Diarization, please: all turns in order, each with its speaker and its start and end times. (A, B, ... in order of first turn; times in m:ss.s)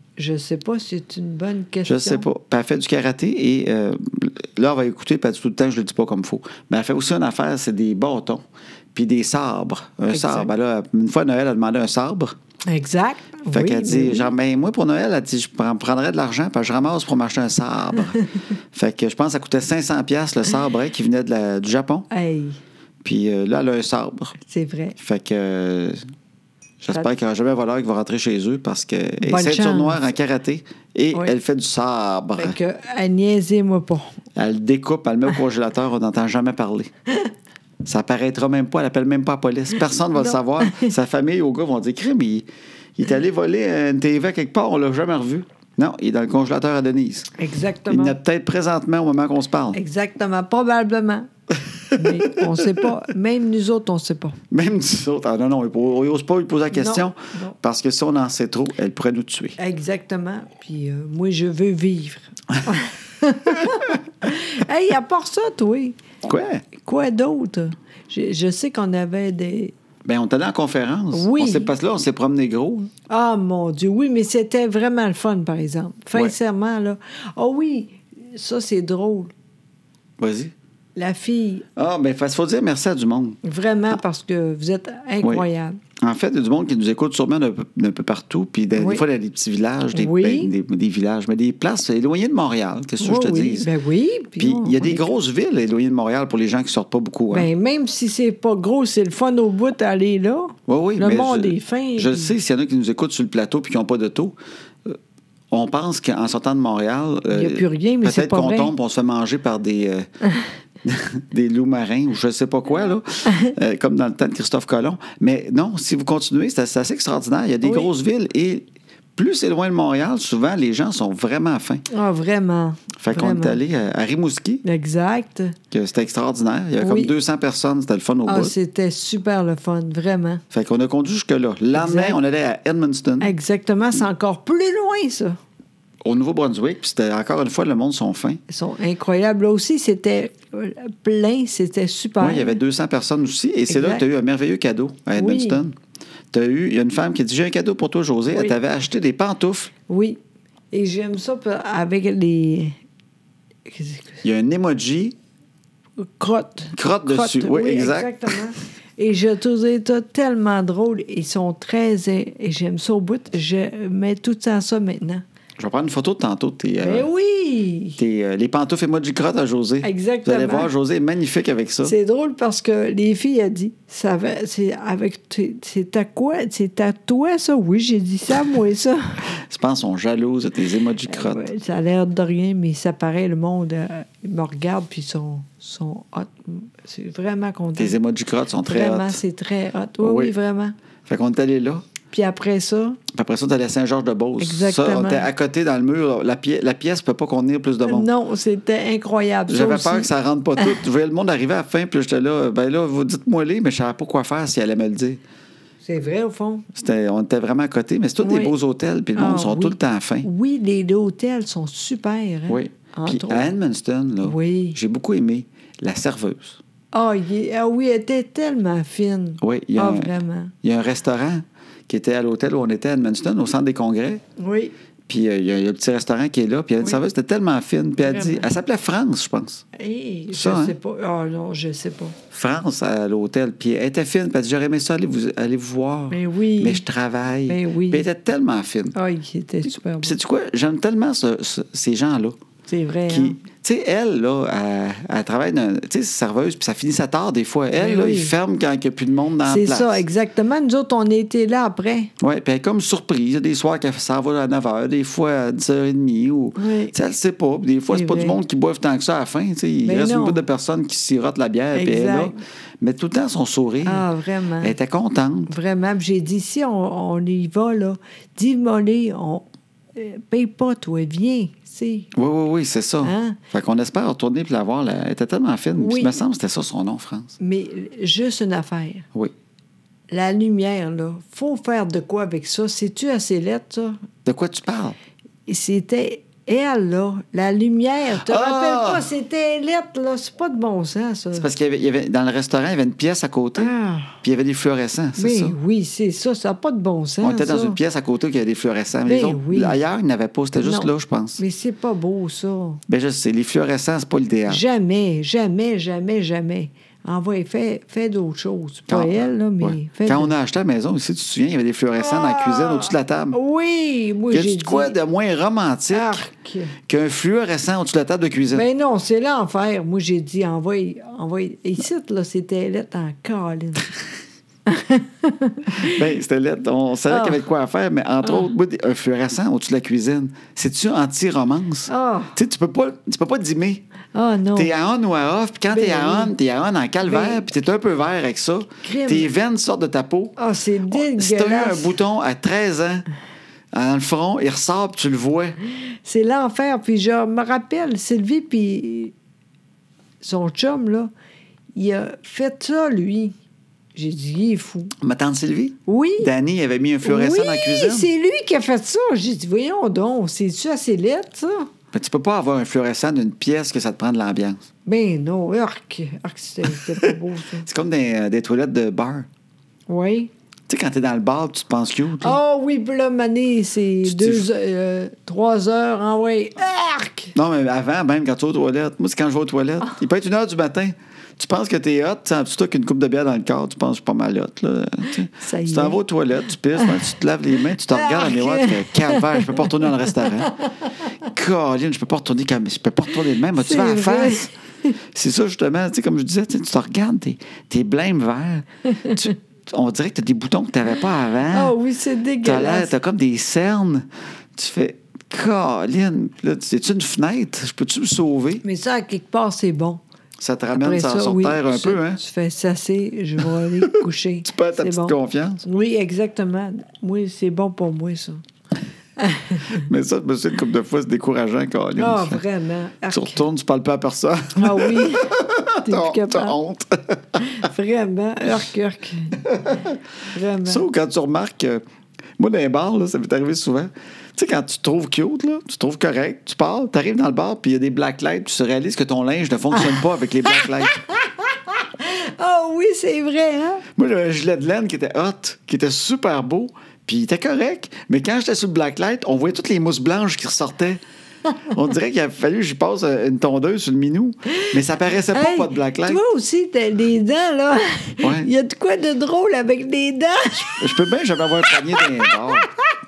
0:00.2-0:02.3 A
0:01.8-0:08.4 B
0:09.0-0:12.4 B
0:10.1-0:10.5 A
0:12.7-0:14.3 A
0:13.5-0:22.1 B
0:22.1-0:22.6 A
0:23.0-0:24.4 B
0:24.4-0:25.0 A
0:25.0-0:26.0 B
0:26.8-0:32.6 B
0:29.2-0:30.0 A
0:32.4-0:34.2 A
0:34.4-0:36.9 B
0:37.8-0:42.5 B
0:40.1-0:40.9 A
0:43.0-0:47.3 B
0:47.4-0:48.2 A
0:47.9-0:49.8 B
0:49.7-0:51.3 A
0:51.9-0:52.8 B
0:52.0-0:54.4 A
0:54.5-0:59.6 B
0:56.7-0:57.6 A
0:59.6-1:06.0 A
1:06.2-1:06.7 B
1:06.8-1:09.7 A
1:10.0-1:12.9 B
1:11.1-1:11.7 A
1:13.1-1:19.3 A
1:20.2-1:20.5 B
1:21.0-1:21.7 A
1:21.8-1:23.4 B
1:23.4-1:25.8 A
1:26.0-1:33.7 B
1:28.8-1:29.0 A
1:29.9-1:30.5 A
1:33.0-1:35.1 A
1:34.4-1:37.5 B
1:37.3-1:42.4 A
1:40.7-1:45.0 B
1:45.5-1:50.1 B
1:47.3-1:48.7 A
1:50.8-1:58.6 B
1:57.6-1:57.9 A
1:59.2-2:01.8 B
2:01.9-2:03.6 A
2:03.0-2:04.6 B
2:04.6-2:05.6 A
2:05.7-2:08.5 B
2:06.8-2:07.1 A
2:08.3-2:10.4 A
2:10.5-2:13.3 B
2:11.7-2:12.2 A
2:13.2-2:15.4 A
2:16.0-2:18.4 B
2:18.5-2:22.6 A
2:22.2-2:25.8 B
2:23.7-2:24.0 A
2:25.2-2:25.6 A
2:26.3-2:29.7 B
2:29.9-2:30.2 A
2:30.7-2:32.8 A
2:33.7-2:34.2 A
2:34.2-2:35.2 B
2:36.0-2:45.2 A
2:36.7-2:38.4 B
2:45.6-2:47.1 B
2:46.8-2:48.0 A
2:48.0-2:52.0 B
2:49.8-2:50.7 A
2:51.8-2:59.2 A
2:59.3-3:01.4 B
3:01.1-3:08.0 A
3:07.8-3:09.2 B
3:08.6-3:10.8 A
3:10.0-3:10.3 B
3:11.1-3:11.9 B
3:12.1-3:13.0 A
3:13.1-3:18.1 B
3:14.4-3:15.3 A
3:17.9-3:20.8 A
3:19.5-3:25.2 B
3:25.8-3:26.7 A
3:26.8-3:30.3 B
3:28.2-3:28.6 A
3:29.2-3:33.5 A
3:32.5-3:36.6 B
3:34.2-3:34.8 A
3:36.9-3:40.5 A
3:39.4-3:40.1 B
3:40.6-3:44.2 B
3:44.4-3:44.8 A
3:45.1-3:49.6 B
3:48.0-3:48.5 A
3:49.7-3:52.2 A
3:50.3-3:50.8 B
3:52.3-3:59.0 B
3:56.1-3:56.8 A
3:57.5-3:58.0 A
3:59.0-4:00.2 A
4:00.0-4:02.4 B
4:02.7-4:03.4 A
4:03.1-4:10.0 B
4:07.7-4:08.3 A
4:09.4-4:12.1 A
4:12.2-4:24.1 B
4:16.6-4:16.9 A
4:17.9-4:18.4 A
4:19.8-4:20.4 A
4:21.7-4:22.4 A
4:23.8-4:24.7 A
4:24.6-4:25.5 B
4:25.5-4:32.1 A
4:32.2-4:37.4 B
4:33.0-4:33.4 A
4:35.8-4:36.2 A
4:37.4-4:39.1 A
4:40.1-4:44.0 A
4:44.2-4:45.0 B
4:45.5-4:51.5 A
4:48.2-4:49.1 B
4:51.3-4:55.6 B
4:53.6-4:54.2 A
4:55.2-4:57.8 A
4:57.2-5:01.4 B
4:59.1-4:59.8 A
5:00.6-5:02.8 A
5:02.9-5:04.6 B
5:04.5-5:10.3 A
5:08.9-5:13.4 B
5:12.0-5:15.0 A
5:14.3-5:16.2 B
5:15.9-5:16.7 A
5:16.9-5:18.7 B
5:18.5-5:23.9 A
5:24.7-5:26.0 A
5:25.8-5:33.8 B
5:27.1-5:27.4 A
5:28.2-5:28.5 A
5:31.9-5:32.4 A
5:34.1-5:34.7 A
5:34.6-5:40.4 B
5:35.7-5:36.3 A
5:37.0-5:37.5 A
5:38.8-5:39.3 A
5:40.4-5:42.0 A
5:40.9-5:43.1 B
5:43.7-5:45.6 B
5:45.8-5:49.1 A
5:50.2-5:51.1 A
5:51.8-5:53.4 A
5:54.0-5:54.9 A
5:55.0-5:58.1 B
5:55.9-5:56.3 A
5:57.0-6:01.7 A
6:01.9-6:04.6 B
6:04.9-6:07.7 A
6:07.0-6:09.3 B
6:09.9-6:10.3 A
6:10.7-6:12.4 B
6:12.2-6:17.3 A
6:14.0-6:14.5 B
6:17.3-6:30.6 B
6:25.4-6:26.0 A
6:26.8-6:27.0 A
6:27.9-6:31.1 A
6:31.2-6:34.5 B
6:33.5-6:34.9 A
6:35.1-6:41.7 B
6:38.9-6:39.2 A
6:41.5-6:42.9 A
6:42.4-6:48.6 B
6:48.6-6:50.0 A
6:50.4-6:52.2 B
6:50.8-6:58.4 A
6:53.8-6:55.6 B
6:59.2-6:59.9 A
6:59.7-7:02.4 B
7:02.0-7:03.4 A
7:03.1-7:07.6 B
7:04.6-7:06.6 A
7:07.5-7:09.4 A
7:09.4-7:10.0 B
7:10.3-7:10.8 A
7:10.6-7:11.8 B
7:12.4-7:21.0 B
7:19.8-7:23.8 A
7:24.0-7:31.0 B
7:31.6-7:36.2 B
7:35.3-7:41.0 A
7:38.2-7:38.5 B
7:40.5-7:42.7 B
7:41.6-7:43.0 A